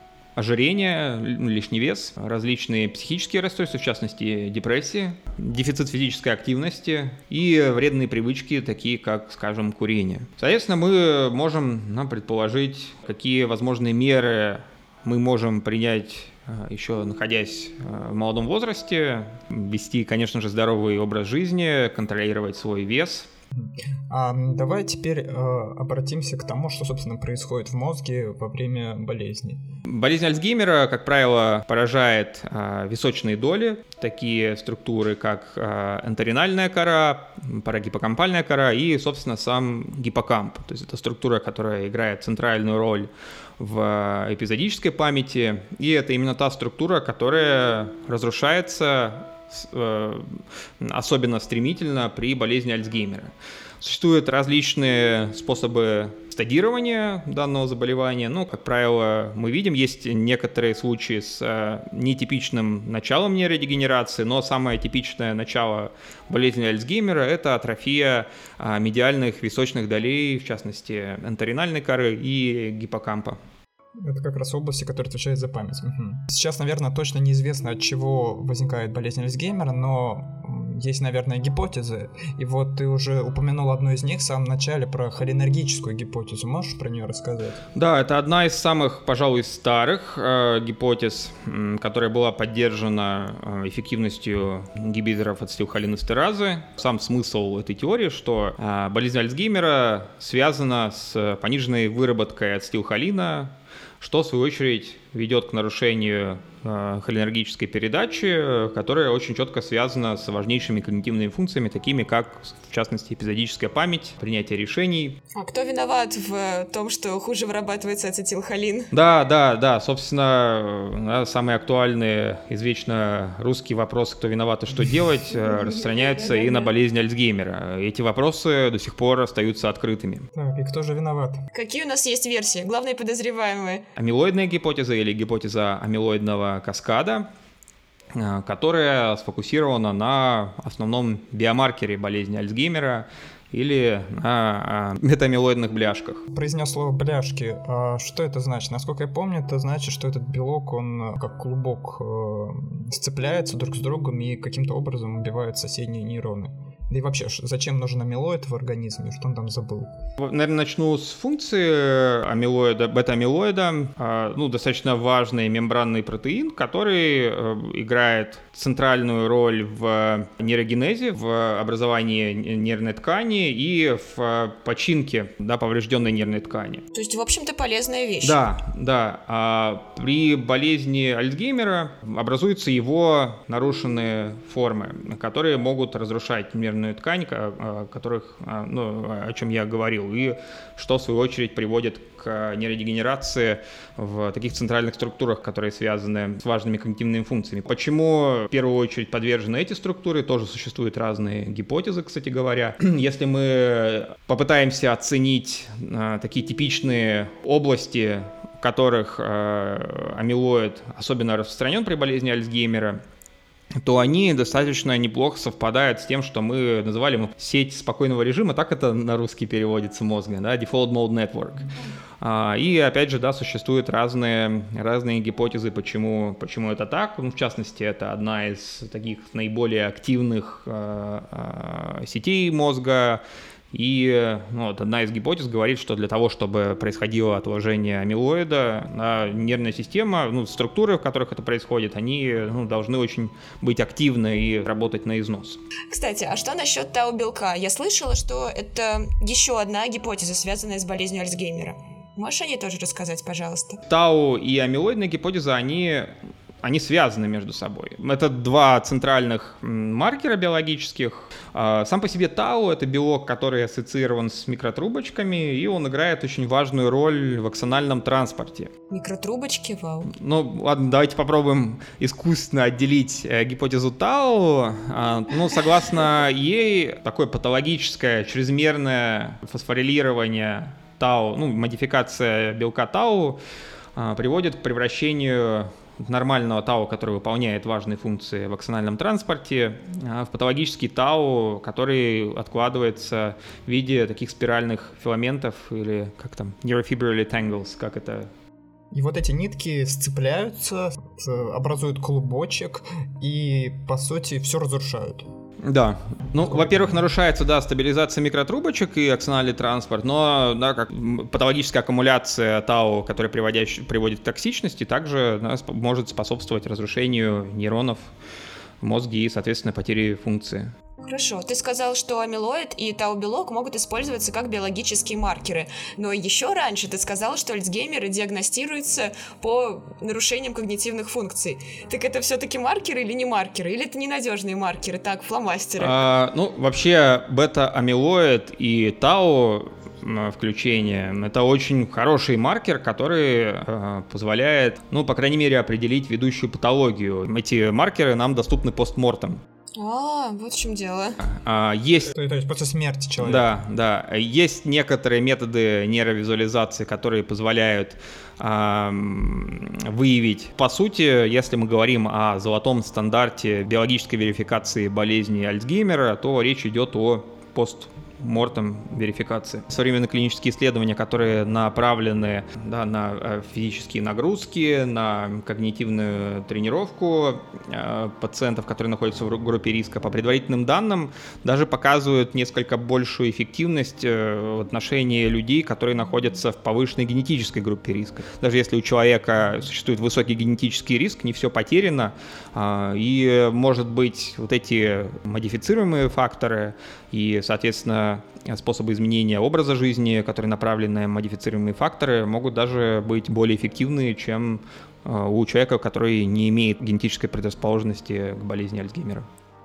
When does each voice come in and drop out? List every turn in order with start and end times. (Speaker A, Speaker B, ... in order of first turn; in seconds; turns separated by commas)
Speaker A: 0.3-23.3, Speaker B: 23.5-29.7, Speaker A: 29.8-73.4, Speaker B: 74.0-87.6, Speaker A: 87.7-115.2, Speaker C: 115.3-118.9, Speaker A: 118.9-130.3, Speaker C: 125.8-126.7, Speaker B: 130.3-131.4, Speaker C: 131.5-133.8, Speaker A: 133.9-137.3, Speaker A: 138.1-146.2, Speaker B: 146.3-159.9, Speaker A: 160.2-176.8, Speaker C: 176.9-178.4, Speaker A: 178.2-213.0, Speaker A: 213.8-221.7, Speaker A: 222.2-245.6, Speaker C: 245.9-253.8, Speaker A: 253.9-268.7, Speaker C: 268.9-270.1, Speaker A: 270.1-283.4, Speaker A: 283.9-298.3, Speaker B: 298.9-305.2, Speaker A: 305.6-318.1, Speaker A: 318.8-320.7, Speaker C: 321.0-336.0, Speaker A: 335.8-349.4, Speaker C: 349.8-351.2, Speaker A: 351.2-352.1, Speaker B: 352.1-353.5, Speaker A: 353.2-409.2